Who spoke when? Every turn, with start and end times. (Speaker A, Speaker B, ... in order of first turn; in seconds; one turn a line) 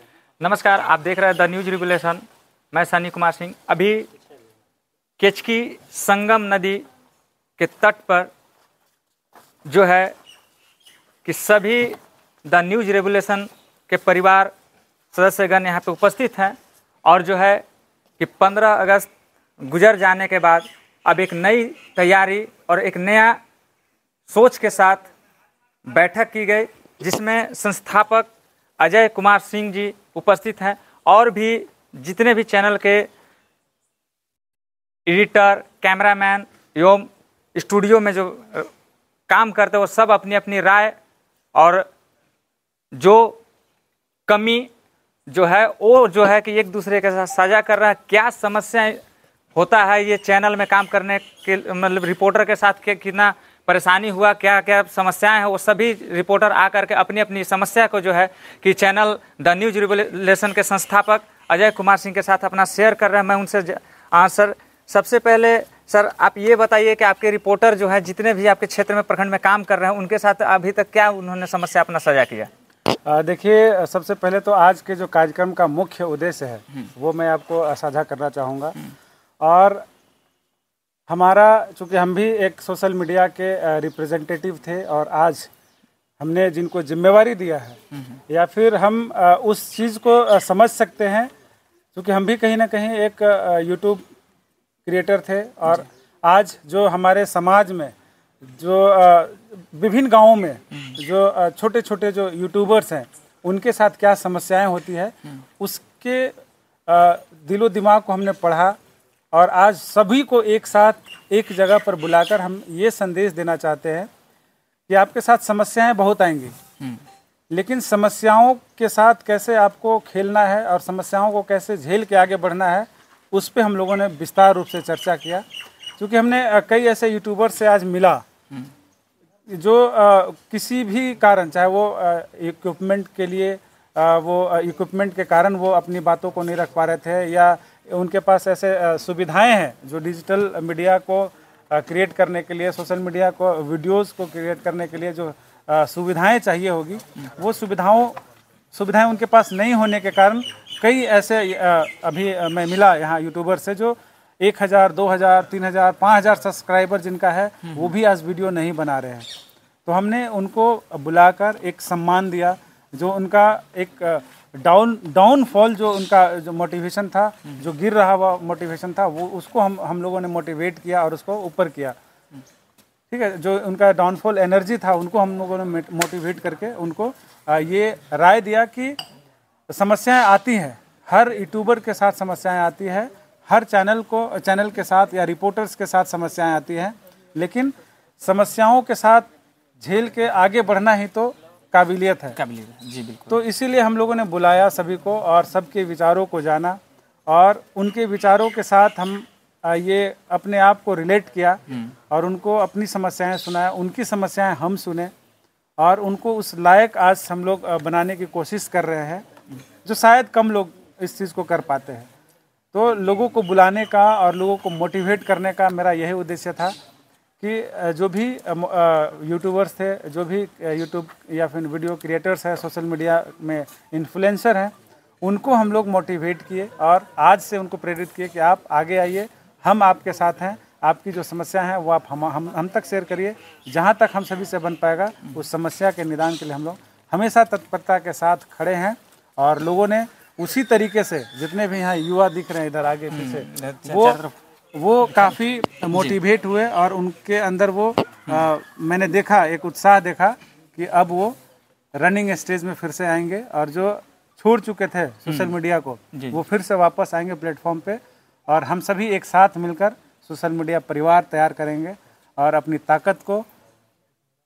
Speaker A: 0.4-4.1
Speaker A: 5.2-6.8
Speaker A: 7.6-8.3
Speaker A: 9.7-10.1
Speaker A: 11.2-11.9
Speaker A: 12.5-14.5
Speaker A: 15.1-16.6
Speaker A: 17.1-17.6
Speaker A: 18.2-19.1
Speaker A: 19.7-23.4
Speaker A: 24.3-25.1
Speaker A: 25.9-28.3
Speaker A: 28.8-33.1
Speaker A: 35.1-38.7
Speaker A: 39.3-41.0
Speaker A: 41.6-41.9
Speaker A: 43.0-43.4
Speaker A: 44.3-44.7
Speaker A: 45.3-49.0
Speaker A: 49.5-72.5
Speaker B: 73.1-78.8
Speaker B: 79.4-79.8
Speaker B: 81.1-85.5
Speaker B: 86.2-87.8
Speaker B: 88.3-91.3
Speaker B: 92.0-94.0
Speaker B: 94.9-97.9
Speaker B: 98.5-106.4
Speaker B: 106.9-108.8
Speaker B: 109.3-114.1
Speaker B: 114.9-116.5
Speaker B: 117.5-125.5
Speaker B: 126.0-128.2
Speaker B: 129.5-148.2
Speaker B: 148.7-159.3
Speaker B: 159.9-172.0
Speaker B: 173.1-179.0
Speaker B: 179.7-189.3
Speaker B: 189.8-192.3
Speaker A: 192.3-193.4
Speaker B: 193.3-205.1
Speaker A: 201.7-201.9
Speaker B: 205.8-209.2
Speaker B: 209.8-212.1
Speaker B: 212.7-216.8
Speaker B: 217.4-244.2
Speaker A: 243.1-244.3
Speaker B: 244.7-251.4
Speaker A: 245.1-245.3
Speaker A: 245.9-246.2
Speaker B: 252.0-263.5
Speaker A: 255.3-255.6
Speaker A: 256.1-256.4